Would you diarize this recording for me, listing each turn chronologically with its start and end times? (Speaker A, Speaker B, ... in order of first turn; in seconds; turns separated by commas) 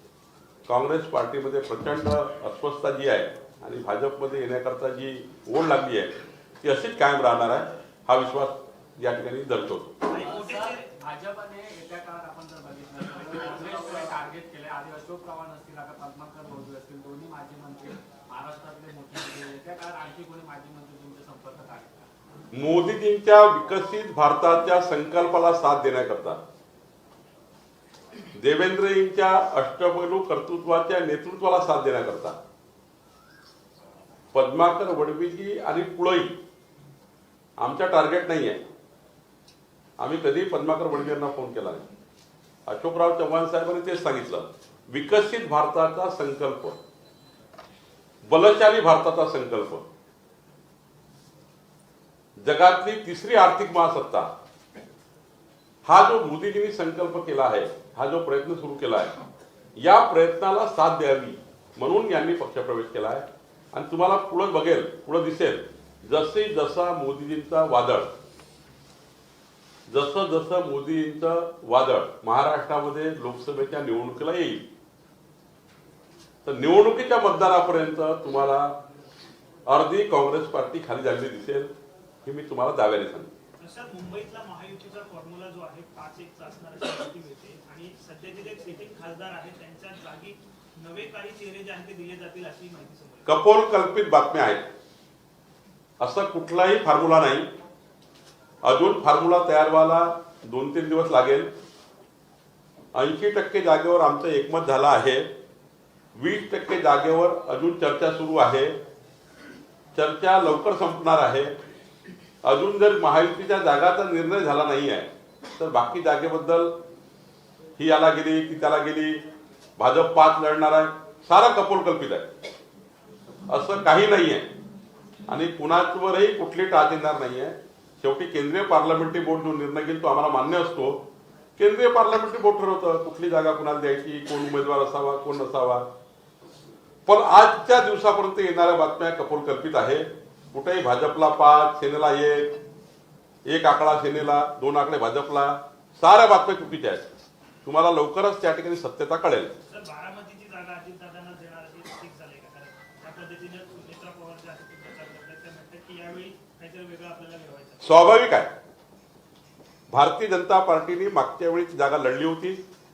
Speaker A: 0.7-10.0, Speaker B: 10.1-10.8, Speaker C: 10.2-22.1, Speaker A: 22.5-26.4, Speaker A: 28.3-32.4, Speaker A: 34.3-36.4, Speaker A: 37.6-38.6, Speaker A: 40.0-41.9, Speaker A: 42.7-46.8, Speaker A: 48.3-49.9, Speaker A: 52.4-54.3, Speaker A: 55.9-59.1, Speaker A: 59.8-68.1, Speaker A: 69.9-74.7, Speaker A: 76.5-78.8, Speaker A: 79.7-81.7, Speaker A: 82.2-83.3, Speaker B: 83.6-93.3, Speaker A: 93.3-94.7, Speaker A: 96.0-97.5, Speaker A: 98.6-101.5, Speaker A: 103.0-105.3, Speaker A: 106.2-108.8, Speaker A: 110.0-111.6, Speaker A: 112.4-116.8, Speaker A: 117.8-119.2, Speaker A: 119.8-122.3, Speaker A: 123.5-124.5, Speaker A: 125.3-135.9, Speaker A: 137.1-142.6, Speaker A: 143.5-147.1, Speaker A: 147.7-149.5, Speaker B: 149.7-157.8, Speaker A: 157.8-158.5, Speaker A: 159.9-162.6